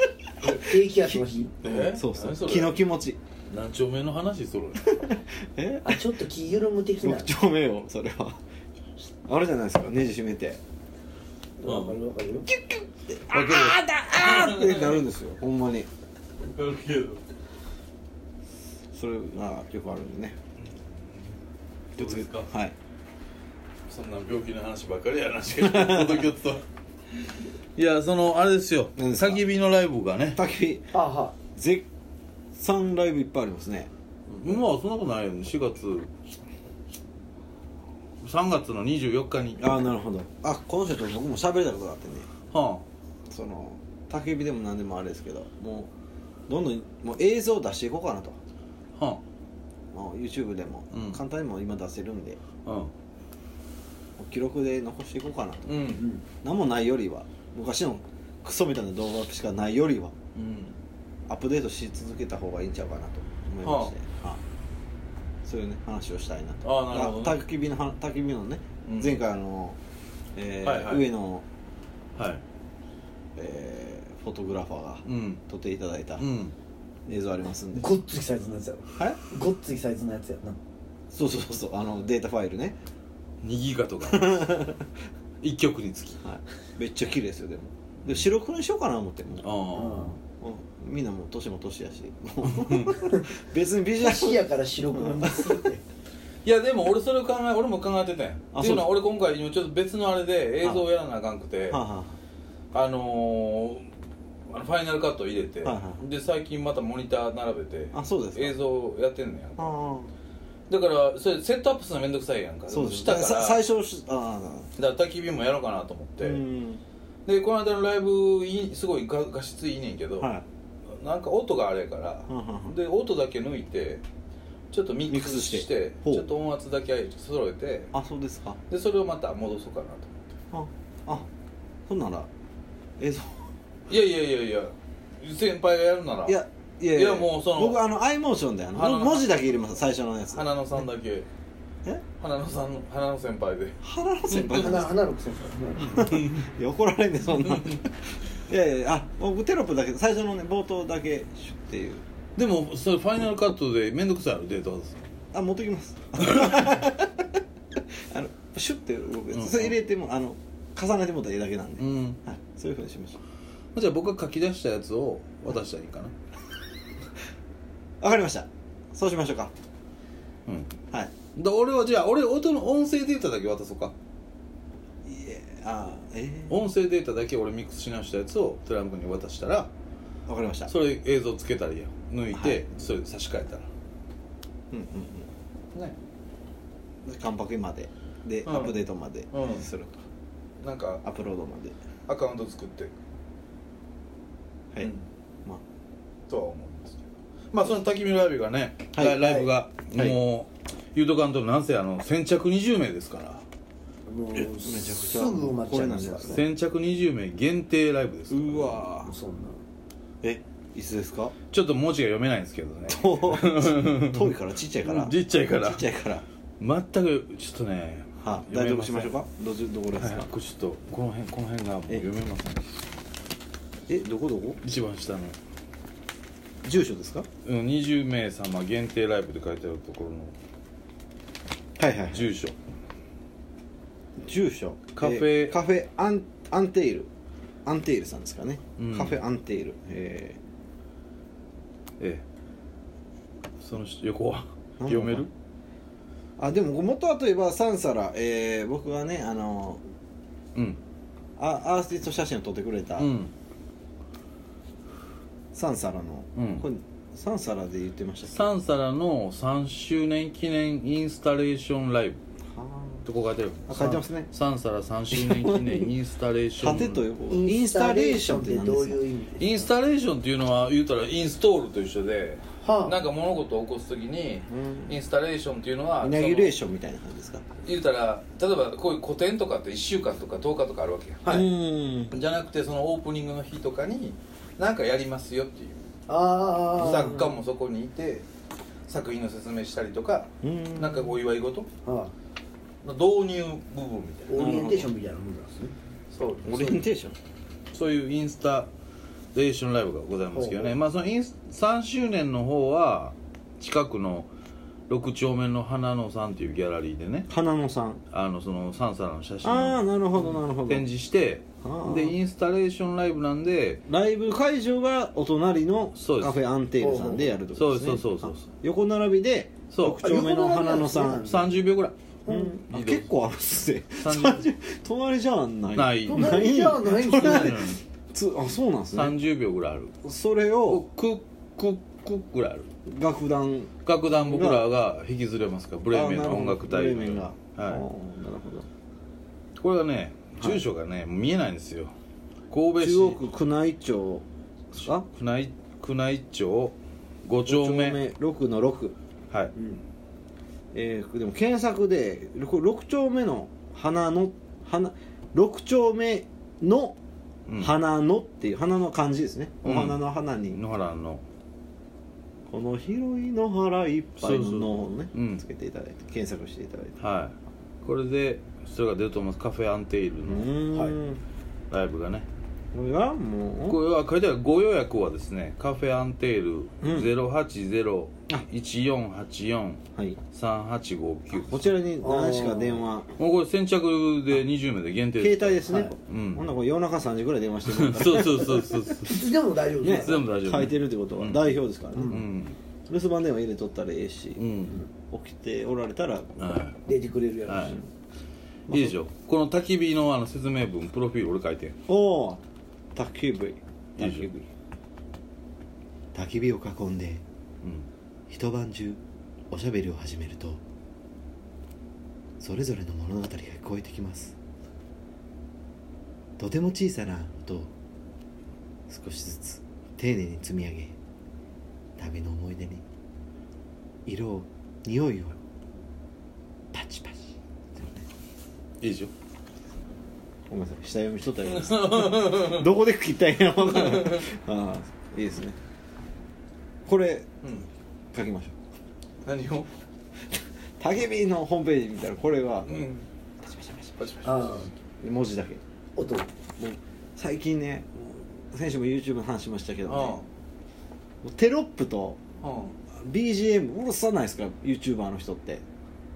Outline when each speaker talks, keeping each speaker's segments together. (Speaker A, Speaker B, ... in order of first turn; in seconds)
Speaker A: 0.4-1.6, 5.8-7.3, 11.6-12.5, 30.9-31.4, 77.7-80.6, 89.7-90.1, 94.0-95.8, 144.4-146.1, 204.1-206.4, 209.0-209.6, 267.3-269.6, 272.6-273.0, 286.1-287.3, 291.8-292.1, 294.3-295.7, 300.3-300.7, 316.8-317.4, 320.0-321.6, 322.3-322.6, 326.1-327.6, 349.6-349.8, 382.0-382.9, 385.7-385.9, 389.0-390.2, 396.9-397.8, 444.2-444.7, 445.9-446.3
Speaker B: 0.4-3.2, 4.8-6.0, 7.0-8.4, 9.2-10.6, 12.5-15.9, 18.9-20.4, 22.0-22.7, 25.6-26.2, 29.0-29.4, 30.3-30.9, 31.5-31.9, 32.5-34.6, 39.6-42.3, 43.3-45.9, 46.5-48.4, 49.9-52.4, 54.2-55.8, 56.3-60.1, 61.3-64.4, 65.4-69.8, 70.3-71.4, 73.3-76.2, 77.0-78.0, 81.1-82.7, 84.0-84.8, 86.2-89.5, 90.4-94.4, 95.0-95.5, 98.5-98.9, 101.7-102.2, 105.6-106.0, 107.9-108.5, 109.6-110.1, 112.7-114.7, 116.2-116.8, 120.2-120.4, 122.3-122.8, 125.1-126.3, 127.9-128.6, 130.5-131.3, 131.9-132.3, 133.0-133.5, 136.2-140.8, 143.8-145.0, 145.8-152.0, 155.3-157.2, 158.1-163.2, 168.0-169.5, 175.0-176.6, 180.3-180.7, 182.3-182.7, 184.7-185.3, 187.0-190.0, 191.0-191.8, 198.9-199.4, 204.3-206.4, 208.3-209.1, 210.2-211.3, 212.9-216.2, 218.2-220.3, 223.9-224.6, 226.6-227.3, 231.8-232.3, 234.2-237.1, 237.6-240.4, 244.8-245.3, 246.4-249.8, 251.4-253.1, 255.5-258.5, 262.5-263.0, 263.7-264.3, 265.1-265.9, 266.6-269.0, 274.5-274.9, 276.0-277.5, 281.2-282.1, 290.4-291.2, 294.4-294.9, 296.4-297.1, 307.3-308.0, 309.4-310.9, 311.6-312.2, 313.9-321.3, 322.3-329.1, 330.0-330.9, 332.9-334.7, 335.9-338.7, 342.8-345.1, 347.4-348.9, 350.7-357.0, 357.6-360.6, 362.5-366.9, 370.2-371.2, 372.7-373.8, 376.8-377.1, 381.3-383.1, 385.2-389.0, 389.8-392.2, 392.9-394.4, 395.0-396.6, 398.7-398.9, 401.9-402.4, 402.9-404.5, 406.1-407.2, 408.3-409.0, 409.5-410.6, 412.4-414.3, 416.4-417.7, 418.9-420.9, 422.0-422.8, 424.1-425.4, 426.7-428.1, 430.5-435.6, 436.9-437.3, 438.1-438.6, 440.8-442.9, 443.4-443.9, 445.0-445.6, 446.6-450.2, 451.2-452.2, 452.9-455.6
Speaker C: 1.6-2.8, 3.5-4.9, 11.6-12.0, 13.3-15.0, 16.5-17.2, 20.7-21.2, 21.9-22.5, 23.9-30.4, 34.4-36.1, 38.2-39.6, 42.5-42.8, 49.0-49.2, 50.9-51.2, 52.6-52.9, 55.6-56.1, 60.3-60.8, 63.6-63.9, 66.6-67.4, 68.8-69.2, 70.6-71.1, 72.2-72.4, 75.0-75.4, 76.2-76.5, 83.4-84.5, 85.4-86.2, 89.4-90.2, 92.4-93.0, 96.4-101.8, 102.7-103.9, 104.5-109.8, 110.7-113.6, 114.8-116.4, 117.2-120.3, 120.9-124.0, 124.7-127.9, 128.7-130.2, 133.9-137.8, 138.7-139.7, 140.2-141.3, 142.2-144.8, 145.9-146.4, 147.4-147.8, 152.3-155.1, 156.2-156.7, 159.3-159.8, 161.8-162.2, 163.7-166.1, 171.3-173.9, 176.5-179.7, 180.7-183.7, 188.4-189.7, 190.6-191.0, 192.1-192.9, 194.8-195.1, 196.3-203.4, 206.2-208.8, 211.5-215.9, 216.6-219.2, 219.9-222.7, 224.6-225.3, 227.4-230.3, 232.1-232.6, 234.9-235.6, 238.8-239.2, 243.6-245.3, 253.0-253.3, 256.3-256.6, 258.3-262.2, 263.0-267.1, 269.4-276.6, 277.6-281.4, 282.1-285.9, 286.8-288.2, 288.9-291.7, 292.8-294.8, 296.1-296.8, 297.7-298.7, 299.3-304.3, 304.9-307.3, 308.1-313.8, 315.9-316.4, 317.5-318.5, 319.7-320.0, 321.2-321.9, 322.7-323.1, 324.0-324.5, 325.7-327.8, 328.9-329.9, 330.6-332.7, 333.8-337.8, 339.6-341.9, 342.5-343.2, 344.7-348.0, 357.5-357.7, 359.6-361.2, 364.2-365.4, 367.0-370.9, 371.7-372.3, 373.6-379.8, 380.3-381.7, 383.2-386.5, 387.6-392.6, 394.4-394.8, 396.4-396.8, 397.5-397.8, 398.7-401.7, 404.0-404.3, 428.8-429.1, 431.5-432.7, 433.7-434.2, 437.4-437.7, 439.2-439.7, 442.7-443.0, 444.0-444.7, 449.9-450.2, 452.4-452.8